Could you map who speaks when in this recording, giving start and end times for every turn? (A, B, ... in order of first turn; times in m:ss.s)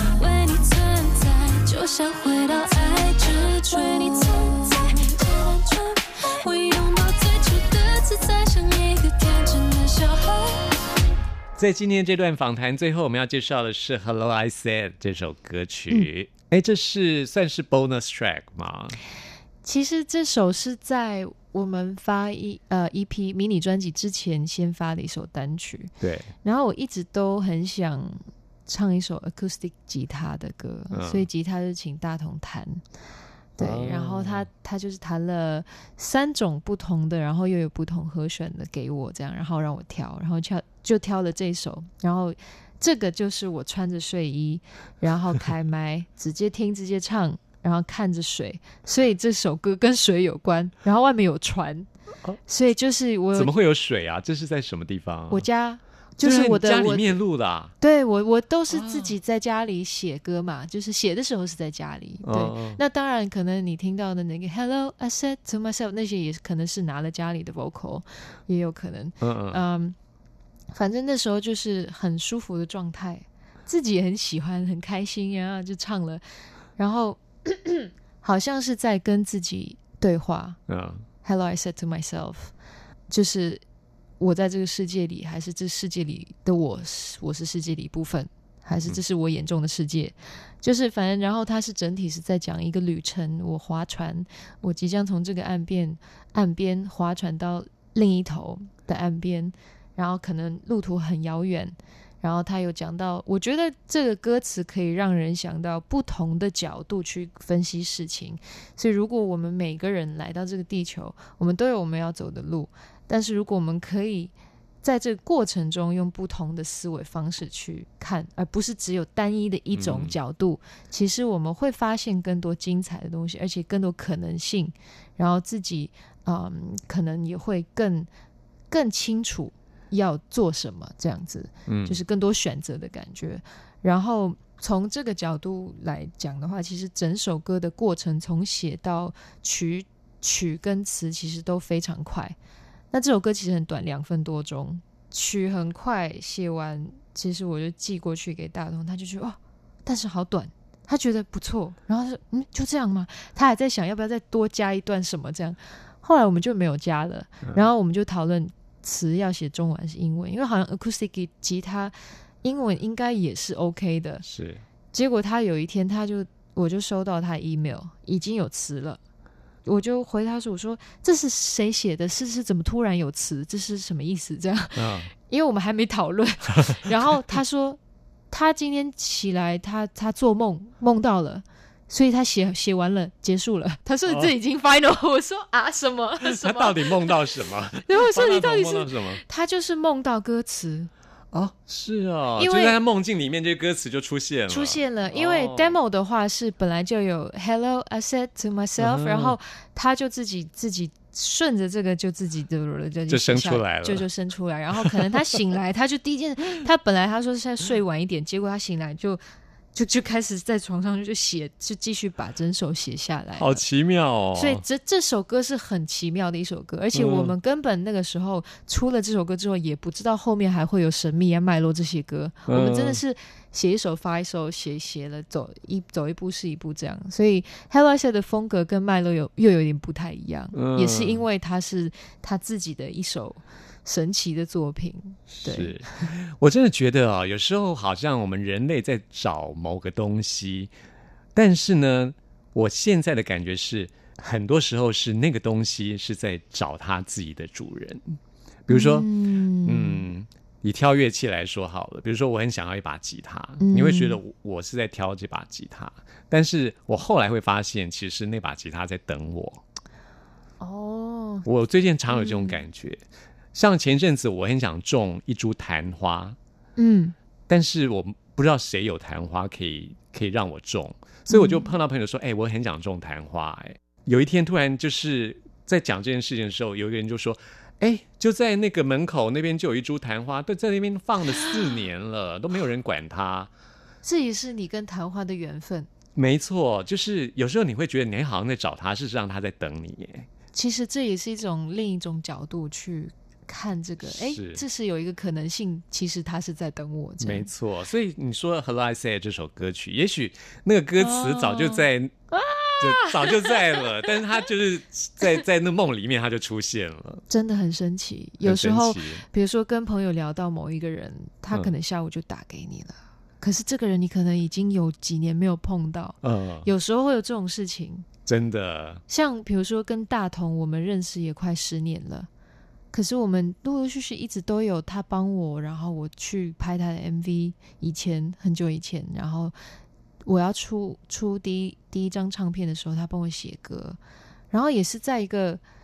0:00.1-0:10.8 A
0:11.6-0:19.0 B
0:19.6-0:25.9 C
0:26.0-0:26.3 B
0:26.4-0:32.8 C
0:30.9-0:31.3 B
0:33.6-0:51.9 C
0:33.6-0:34.5 B
0:52.5-0:53.5 C
0:53.3-0:55.4 B
0:55.3-0:57.2 C
0:56.2-0:57.7 B
0:57.8-1:10.0 C
0:58.7-0:59.2 B
1:02.2-1:02.8 B
1:09.2-1:09.6 B
1:10.7-1:16.2 C
1:16.8-1:20.6 C
1:20.7-1:21.1 B
1:21.2-1:22.5 C
1:23.1-1:23.6 C
1:24.2-2:08.1 C
1:59.7-2:00.1 B
2:08.7-2:22.4 C
2:11.7-2:12.0 B
2:22.9-2:44.2 C
2:44.2-2:44.6 B
2:44.9-2:49.0 C
2:49.6-2:57.8 C
2:54.7-2:55.1 B
2:58.3-3:07.2 C
3:04.0-3:04.3 B
3:06.2-3:09.2 B
3:07.8-3:10.9 C
3:11.3-3:15.8 B
3:12.4-3:12.8 C
3:14.5-3:29.2 C
3:18.8-3:19.4 B
3:23.1-3:24.0 B
3:24.8-3:25.1 B
3:29.7-3:33.6 C
3:33.4-3:34.6 B
3:34.3-3:55.8 C
3:36.9-3:37.3 B
3:42.5-3:43.0 B
3:50.5-3:51.2 B
3:55.3-4:00.7 B
4:01.3-4:09.1 B
4:08.7-4:10.0 C
4:09.6-4:19.6 B
4:13.6-4:14.2 C
4:20.6-4:21.4 C
4:21.4-4:23.0 B
4:22.1-4:22.6 C
4:23.5-4:26.4 B
4:26.8-4:27.2 C
4:27.5-4:43.5 B
4:31.3-4:31.7 C
4:44.0-4:45.9 C
4:46.2-4:50.3 B
4:50.5-4:57.5 C
4:54.0-4:54.6 B
4:57.2-5:02.1 B
5:01.0-5:04.1 C
5:02.8-5:07.2 B
5:07.3-5:18.1 C
5:08.4-5:09.2 B
5:16.2-5:16.7 B
5:18.2-5:19.0 B
5:19.1-5:22.3 C
5:22.9-5:29.5 C
5:30.2-5:34.0 C
5:34.5-5:35.6 C